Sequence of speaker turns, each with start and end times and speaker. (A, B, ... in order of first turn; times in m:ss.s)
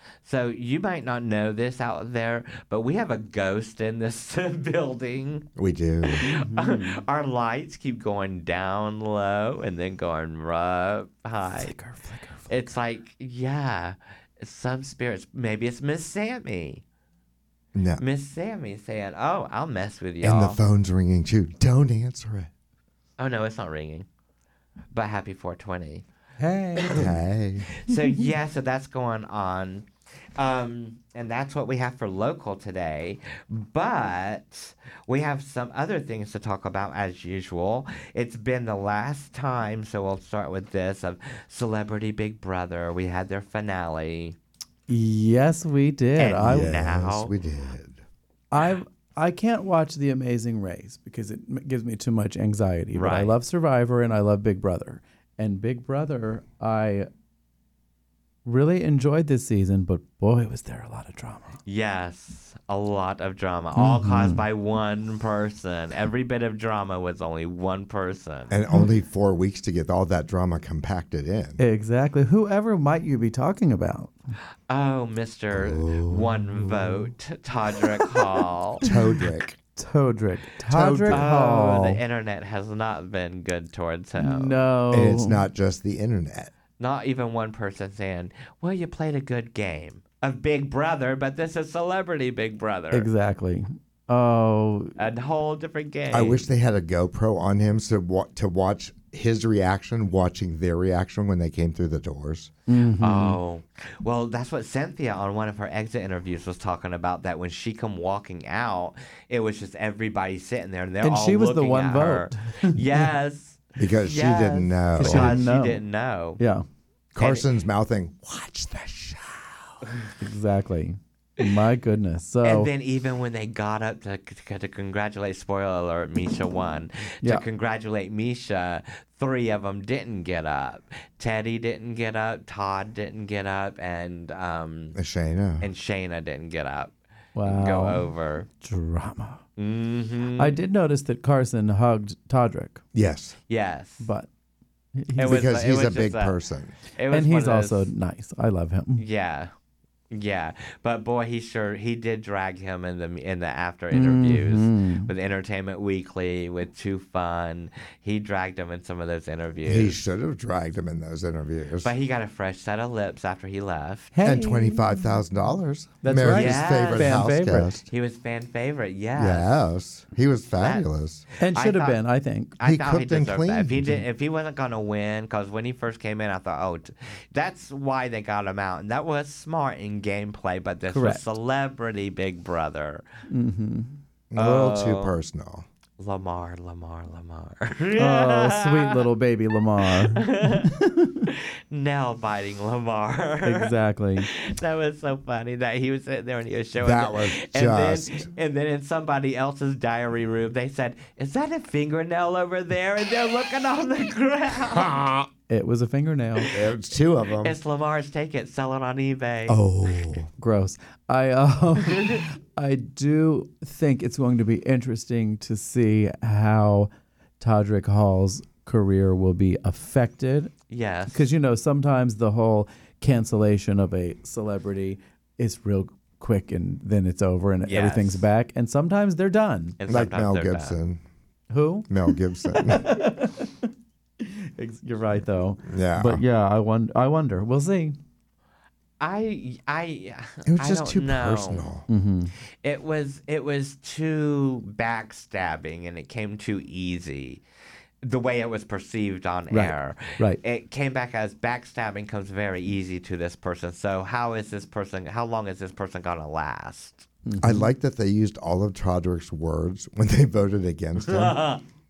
0:00.2-0:05.5 A
0:05.6-0:06.2 B
0:06.1-0:11.7 A
0:06.2-0:07.0 C
0:11.5-0:12.7 C
0:12.5-0:16.8 A
0:17.8-0:18.0 B
0:18.0-0:20.6 A
0:20.2-0:22.5 B
0:23.2-0:24.1 A
0:24.9-0:26.0 A
0:26.4-0:27.1 C
0:26.8-0:27.1 A
0:26.9-0:27.7 B
0:27.8-0:44.4 A
0:44.9-0:46.7 C
0:46.2-0:47.3 A
0:46.4-0:48.0 B
0:48.5-0:57.1 C
0:53.0-0:53.3 A
0:58.4-1:01.6 C
1:01.7-1:08.6 A
1:03.8-1:04.4 C
1:08.5-1:11.6 B
1:11.6-1:14.1 C
1:14.7-1:18.9 A
1:15.5-1:16.8 B
1:18.8-1:19.5 B
1:19.7-1:22.0 C
1:20.7-1:21.3 B
1:21.1-1:24.6 A
1:24.2-1:25.4 C
1:24.9-1:26.5 B
1:26.8-1:33.1 A
1:32.9-1:35.0 C
1:35.0-1:36.4 A
1:36.1-1:42.5 B
1:42.7-1:43.4 C
1:43.0-1:56.4 A
1:51.0-1:53.1 C
1:53.8-1:55.4 B
1:55.0-1:55.8 C
1:56.4-1:56.7 C
1:57.1-1:59.8 B
1:57.2-1:57.5 A
2:00.2-2:02.7 C
2:02.4-2:15.0 A
2:15.0-2:15.7 B
2:15.6-2:18.5 A
2:17.4-2:18.1 C
2:18.6-2:19.4 C
2:19.6-2:20.6 A
2:20.4-2:22.8 C
2:22.9-2:23.4 B
2:23.5-2:24.1 A
2:24.0-2:24.3 C
2:25.0-2:25.4 C
2:25.2-2:26.4 A
2:25.2-2:26.7 B
2:26.9-2:27.9 A
2:27.1-2:29.0 C
2:29.0-2:29.5 A
2:30.1-2:40.0 A
2:33.9-2:35.1 C
2:39.7-2:41.9 B
2:41.8-2:44.1 A
2:44.1-2:45.0 C
2:44.2-2:47.9 B
2:46.0-2:47.7 C
2:46.2-2:49.6 A
2:49.2-2:51.2 B
2:50.6-2:52.0 A
2:51.4-2:52.5 C
2:52.6-3:03.0 A
2:52.6-2:54.0 B
3:00.9-3:01.2 C
3:03.3-3:04.0 C
3:04.3-3:05.7 B
3:04.4-3:05.1 A
3:06.0-3:09.0 A
3:08.0-3:11.3 C
3:10.0-3:25.2 A
3:13.4-3:14.3 C
3:16.8-3:18.3 B
3:25.5-3:26.5 C
3:26.5-3:27.6 B
3:27.4-3:29.6 A
3:29.5-3:30.3 B
3:30.4-3:36.9 C
3:31.9-3:32.2 A
3:37.4-3:40.5 C
3:40.7-3:41.3 A
3:41.1-3:49.8 C
3:47.7-3:48.2 A
3:49.8-3:50.8 A
3:49.9-3:51.0 B
3:51.5-3:58.0 C
3:51.9-3:53.0 B
3:55.6-3:56.2 B
3:59.0-4:01.7 A
4:00.5-4:01.9 B
4:01.9-4:02.3 C
4:02.6-4:07.4 A
4:08.0-4:17.1 A
4:09.5-4:10.4 C
4:17.3-4:17.7 C
4:17.4-4:21.4 B
4:21.0-4:21.6 A